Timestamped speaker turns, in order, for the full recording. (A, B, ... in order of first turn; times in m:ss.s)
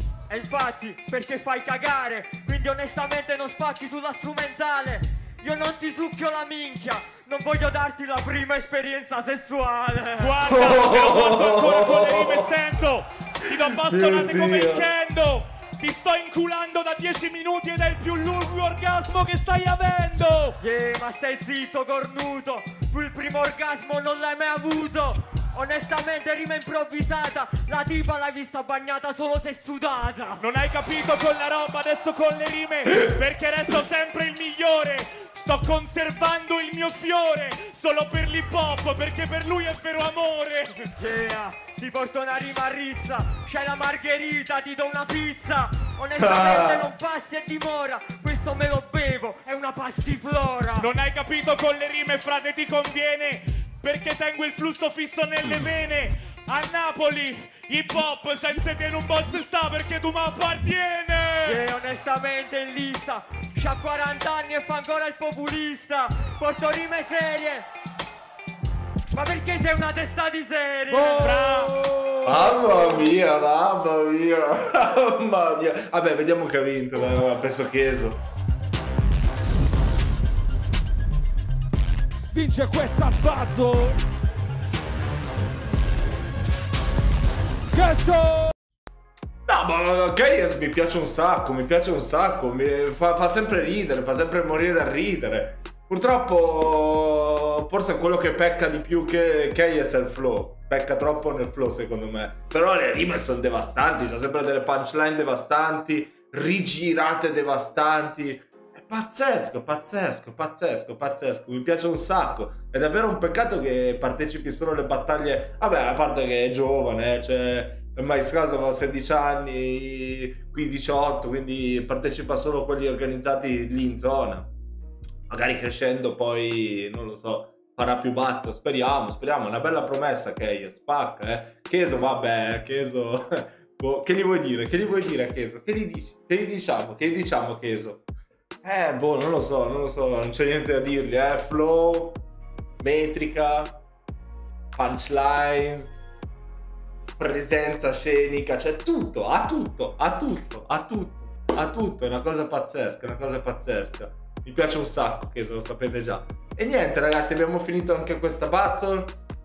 0:00.3-0:10.4 A
0:10.2-0:20.6 B
0:10.4-0:12.5 C
0:13.5-0:14.9 C
0:20.6-0:30.4 A
0:30.4-0:40.9 B
0:41.0-0:50.9 A
0:46.2-0:46.9 C
0:50.8-1:01.6 B
1:01.4-1:07.7 A
1:09.1-1:11.5 A
1:10.9-1:13.1 D
1:11.1-1:11.7 B
1:12.2-1:18.2 C
1:22.3-1:24.0 D
1:27.7-1:28.5 D
1:29.5-2:04.5 C
2:05.3-2:18.0 C
2:18.6-2:22.2 C
2:22.8-2:23.8 C
2:24.8-2:26.0 C
2:27.2-2:39.1 C